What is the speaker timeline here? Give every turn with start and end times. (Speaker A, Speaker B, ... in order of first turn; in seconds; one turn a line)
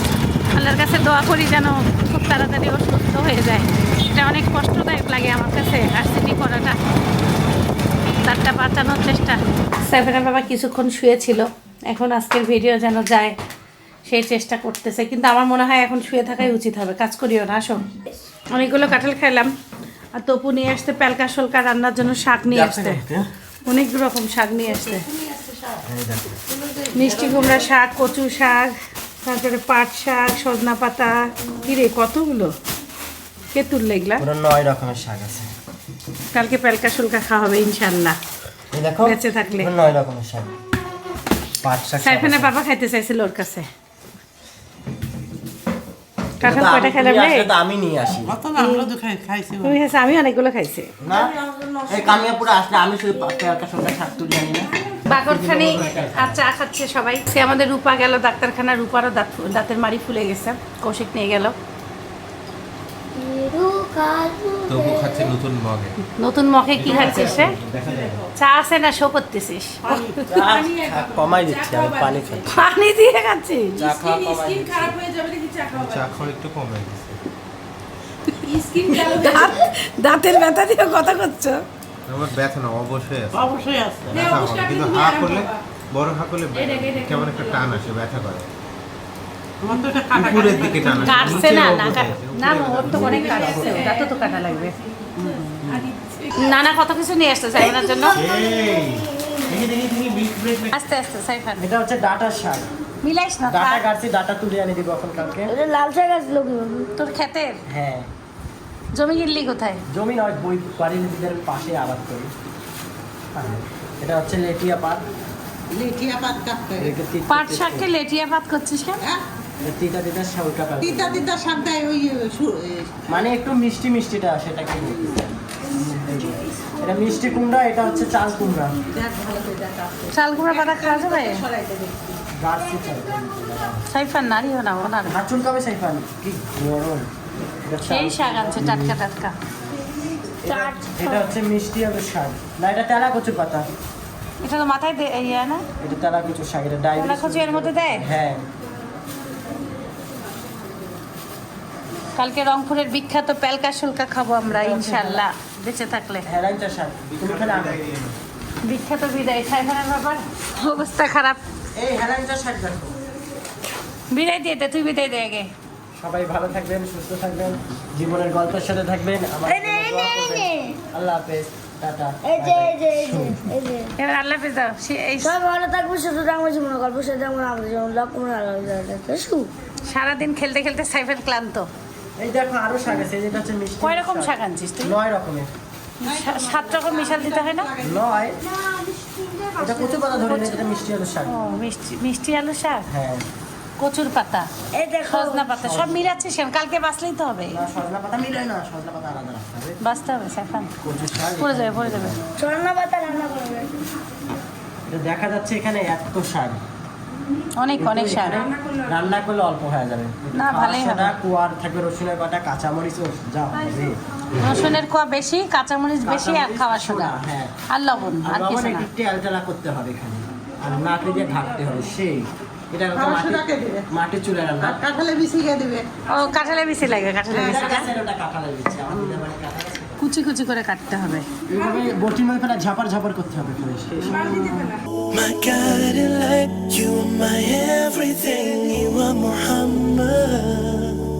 Speaker A: 0.5-6.8
Speaker A: 8.2-13.4
Speaker A: 14.1-17.9
Speaker A: 18.5-19.5
Speaker A: 20.2-23.0
Speaker B: 22.5-23.3
Speaker A: 23.6-25.1
Speaker C: 24.7-25.9
Speaker B: 25.9-26.4
Speaker C: 26.5-27.7
Speaker A: 26.9-32.5
Speaker A: 33.5-34.3
Speaker B: 34.2-35.5
Speaker A: 36.3-38.2
Speaker B: 38.7-40.5
Speaker A: 39.0-39.7
Speaker B: 41.6-42.5
Speaker A: 42.0-43.7
Speaker B: 46.4-48.4
Speaker A: 46.4-47.5
Speaker C: 48.3-49.8
Speaker A: 48.5-48.9
Speaker A: 49.6-50.9
Speaker B: 51.0-56.4
Speaker D: 51.1-53.7
Speaker A: 55.1-61.6
Speaker D: 63.1-65.3
Speaker E: 64.7-66.0
Speaker A: 66.2-67.6
Speaker E: 66.8-68.2
Speaker A: 68.4-70.2
Speaker B: 70.2-72.7
Speaker F: 70.4-72.4
Speaker A: 72.5-73.8
Speaker B: 73.8-75.0
Speaker F: 73.8-76.0
Speaker E: 75.7-77.2
Speaker F: 78.3-79.6
Speaker A: 79.0-81.6
Speaker E: 82.1-83.5
Speaker B: 83.3-84.3
Speaker F: 84.1-85.6
Speaker E: 84.1-88.5
Speaker A: 86.5-87.8
Speaker C: 89.6-91.4
Speaker E: 90.1-93.1
Speaker A: 90.9-94.8
Speaker B: 92.8-93.9
Speaker F: 92.8-94.7
Speaker B: 95.2-95.9
Speaker F: 96.0-96.3
Speaker A: 96.3-98.2
Speaker E: 98.2-99.0
Speaker D: 98.2-99.6
Speaker B: 99.5-100.7
Speaker E: 100.3-100.6
Speaker A: 100.7-101.7
Speaker B: 101.6-102.7
Speaker A: 103.0-103.9
Speaker B: 103.5-105.5
Speaker D: 105.5-106.9
Speaker A: 107.0-107.6
Speaker B: 107.7-108.1
Speaker A: 108.9-109.8
Speaker B: 109.9-112.3
Speaker B: 113.3-115.0
Speaker C: 115.7-117.0
Speaker B: 116.8-117.9
Speaker A: 117.3-119.0
Speaker B: 119.6-121.3
Speaker C: 120.8-123.2
Speaker B: 123.1-128.8
Speaker C: 128.9-132.2
Speaker A: 130.1-131.4
Speaker B: 132.3-133.9
Speaker A: 133.9-135.2
Speaker B: 135.0-137.1
Speaker B: 137.6-139.0
Speaker A: 137.8-139.3
Speaker B: 140.4-143.7
Speaker A: 140.5-141.3
Speaker A: 144.4-145.7
Speaker B: 145.8-148.5
Speaker A: 146.9-148.1
Speaker A: 152.2-156.3
Speaker B: 154.5-155.2
Speaker B: 156.2-157.8
Speaker E: 157.2-158.2
Speaker A: 158.6-161.4
Speaker B: 161.8-163.0
Speaker A: 164.1-165.5
Speaker B: 166.0-173.4
Speaker D: 169.4-170.8
Speaker D: 172.2-173.9
Speaker A: 174.0-175.4
Speaker D: 175.2-179.5
Speaker A: 179.8-181.7
Speaker B: 182.2-185.5
Speaker A: 183.8-184.9
Speaker A: 186.0-187.7
Speaker C: 186.0-188.0
Speaker B: 187.8-188.4
Speaker C: 189.0-190.4
Speaker B: 189.6-191.4
Speaker A: 190.3-190.6
Speaker A: 191.2-192.9
Speaker B: 192.9-193.3
Speaker A: 193.8-194.5
Speaker D: 194.7-195.5
Speaker A: 195.1-197.6
Speaker B: 195.6-196.0
Speaker B: 197.5-199.8
Speaker A: 199.8-200.7
Speaker B: 200.8-202.2
Speaker A: 201.4-202.2
Speaker D: 202.4-203.9
Speaker B: 204.9-206.6
Speaker A: 207.6-208.5
Speaker B: 207.8-214.0
Speaker A: 210.3-211.2
Speaker A: 214.4-217.2
Speaker B: 216.0-217.5
Speaker A: 217.7-218.9
Speaker B: 218.2-224.9
Speaker C: 222.9-223.9
Speaker C: 224.6-225.9
Speaker A: 226.1-227.9
Speaker C: 227.3-227.8
Speaker B: 227.4-230.1
Speaker C: 228.9-229.2
Speaker A: 230.0-231.3
Speaker B: 231.5-234.3
Speaker C: 234.0-234.8
Speaker G: 235.1-241.0